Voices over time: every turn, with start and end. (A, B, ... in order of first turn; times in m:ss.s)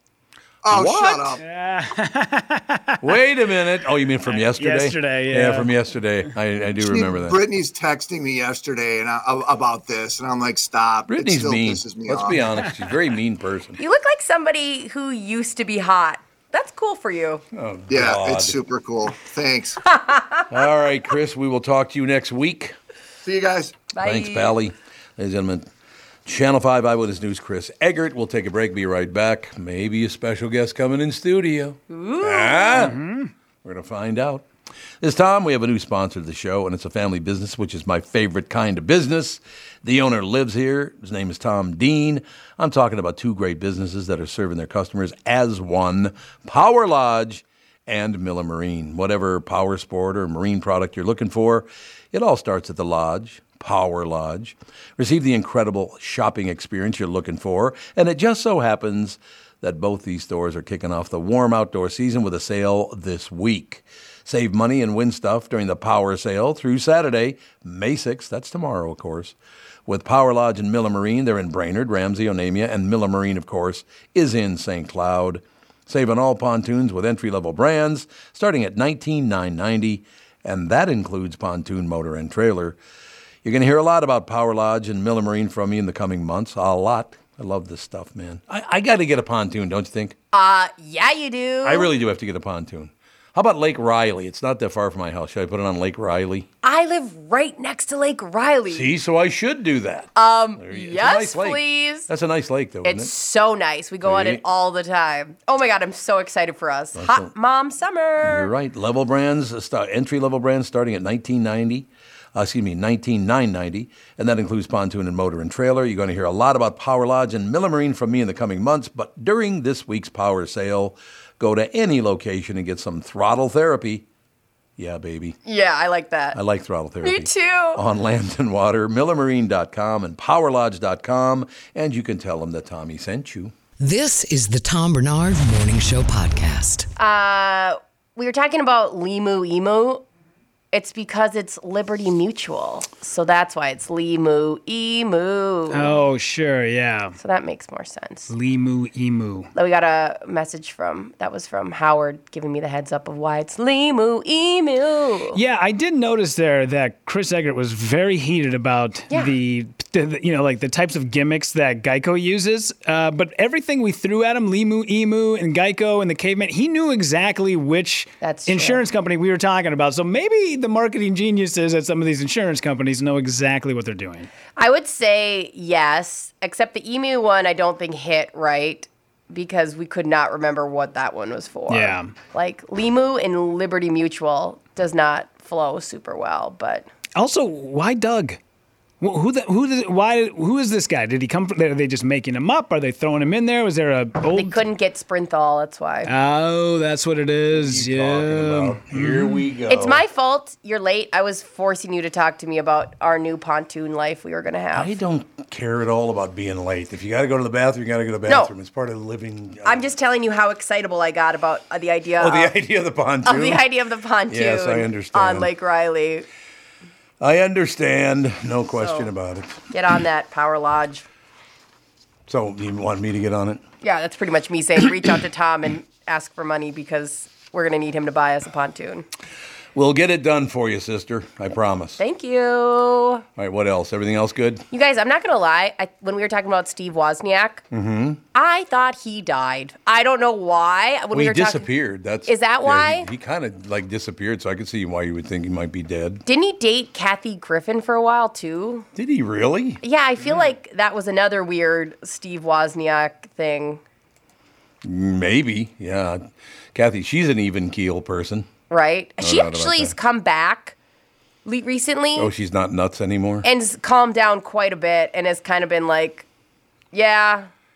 0:00.6-0:01.4 A
0:00.7-0:01.4 B
0:01.4-0:03.0 C
0:03.0-0:07.4 B
0:04.4-0:05.7 C
0:06.8-0:12.4 A
0:11.1-0:13.8 B
0:13.8-0:17.4 D
0:17.5-0:18.6 B
0:17.9-0:20.0 A
0:20.1-0:20.4 D
0:20.5-0:22.8 B
0:23.2-0:23.8 A
0:23.9-0:24.5 D
0:24.0-0:25.7 B
0:26.2-0:33.0 B
0:31.9-0:32.9 D
0:32.8-0:33.3 C
0:33.6-0:34.5 B
0:35.0-1:22.8 B
1:23.4-1:30.2 B
1:30.3-1:31.9 D
1:31.6-1:36.5 B
1:36.6-1:38.9 D
1:38.7-1:43.1 B
1:40.2-1:42.1 D
1:42.8-1:48.5 D
1:44.0-1:44.4 B
1:46.9-1:47.3 B
1:48.2-2:04.0 B
2:04.8-2:05.4 B
2:05.4-2:06.4 D
2:06.3-2:13.5 B
2:07.0-2:07.8 D
2:13.8-2:16.9 E
2:17.0-2:20.0 D
2:20.7-2:26.0 D
2:25.7-2:27.2 C
2:27.2-2:28.3 D
2:28.3-2:29.5 C
2:29.5-2:35.4 D
2:35.3-2:54.3 C
2:48.2-2:48.8 D
2:54.6-3:06.9 D
3:01.7-3:02.1 C
3:07.2-3:08.4 C
3:09.0-3:14.6 C
3:14.3-3:16.1 D
3:16.0-3:19.4 C
3:17.5-3:20.0 B
3:19.7-3:24.9 D
3:24.7-3:29.9 B
3:28.2-3:28.5 D
3:29.6-3:32.5 D
3:32.2-3:33.6 B
3:33.2-3:36.2 D
3:34.3-3:35.5 B
3:37.2-3:39.6 B
3:38.8-3:39.1 D
3:39.7-3:41.0 D
3:42.3-3:43.6 B
3:43.8-3:49.0 D
3:49.7-3:52.0 B
3:52.0-3:53.2 D
3:53.4-3:54.6 B
3:54.7-3:57.6 D
3:57.7-3:58.2 B
3:58.3-4:01.7 D
4:01.1-4:06.2 B
4:02.2-4:03.1 D
4:06.2-4:08.9 D
4:08.9-4:09.8 B
4:09.8-4:13.8 D
4:14.8-4:18.5 B
4:18.7-4:20.7 D
4:19.2-4:20.0 B
4:21.4-4:22.3 D
4:22.2-4:23.5 B
4:23.4-4:26.2 D
4:26.9-4:27.5 D